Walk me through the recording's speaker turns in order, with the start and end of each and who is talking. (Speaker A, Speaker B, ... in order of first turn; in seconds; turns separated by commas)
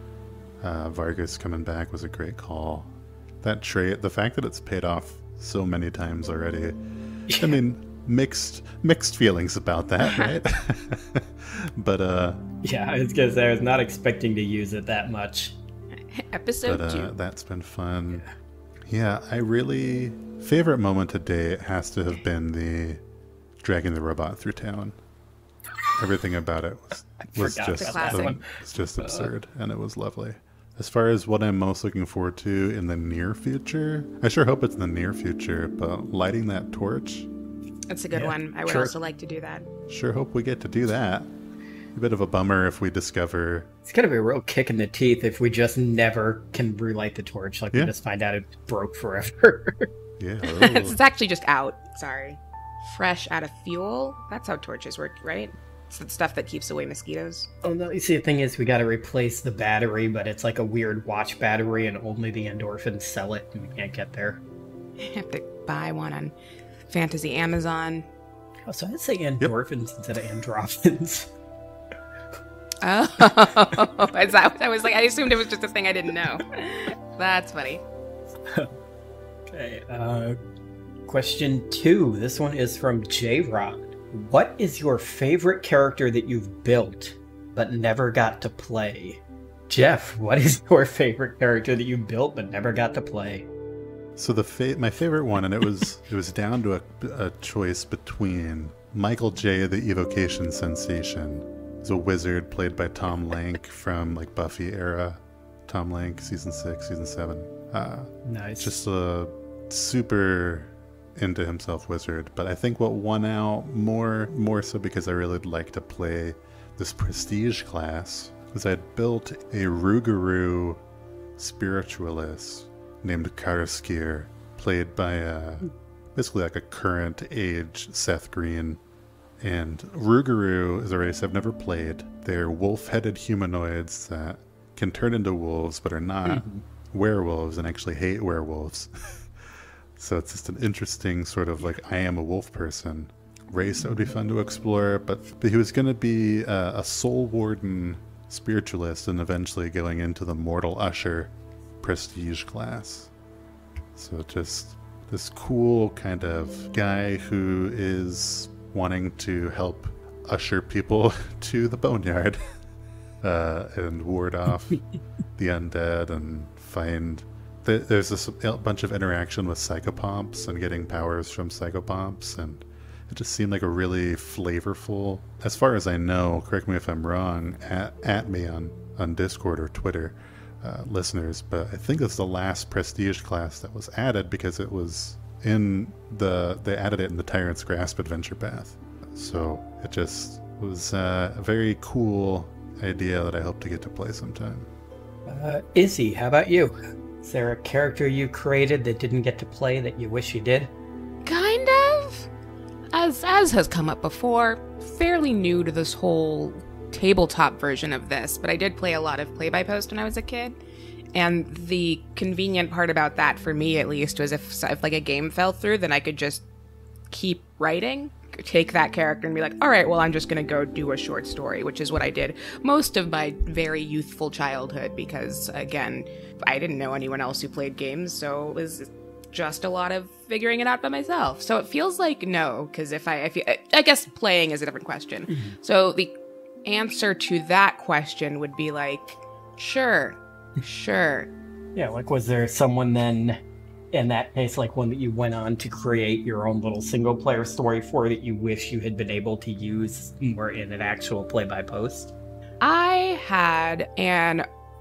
Speaker A: 0.6-6.8, Speaker B: 7.3-7.5, Speaker A: 7.3-12.4, Speaker B: 12.6-15.6, Speaker C: 16.1-17.1, Speaker A: 16.6-18.2, Speaker A: 18.9-23.0, Speaker A: 23.6-25.0, Speaker A: 25.9-37.3, Speaker B: 27.3-28.4, Speaker C: 27.7-28.4, Speaker B: 29.0-29.3, Speaker C: 37.9-39.6, Speaker B: 38.1-38.9, Speaker A: 39.9-41.3, Speaker A: 41.9-43.7, Speaker B: 43.9-49.9, Speaker A: 50.2-51.0, Speaker C: 50.5-57.5, Speaker B: 57.6-64.4, Speaker C: 65.0-66.3, Speaker C: 66.9-68.1, Speaker B: 68.7-71.3, Speaker C: 72.8-77.8, Speaker B: 79.5-80.4, Speaker B: 81.1-93.5, Speaker A: 94.2-120.8, Speaker B: 108.2-108.7, Speaker A: 121.4-128.8, Speaker A: 129.4-139.3, Speaker B: 136.2-136.6, Speaker A: 139.9-153.1, Speaker A: 153.9-162.4, Speaker A: 163.2-164.8, Speaker A: 165.3-194.7, Speaker B: 195.2-200.7, Speaker C: 201.2-202.3, Speaker C: 202.9-210.6, Speaker C: 211.1-216.4, Speaker C: 217.1-241.3, Speaker B: 235.3-235.6, Speaker B: 241.8-243.4, Speaker B: 243.9-252.1, Speaker C: 252.6-254.4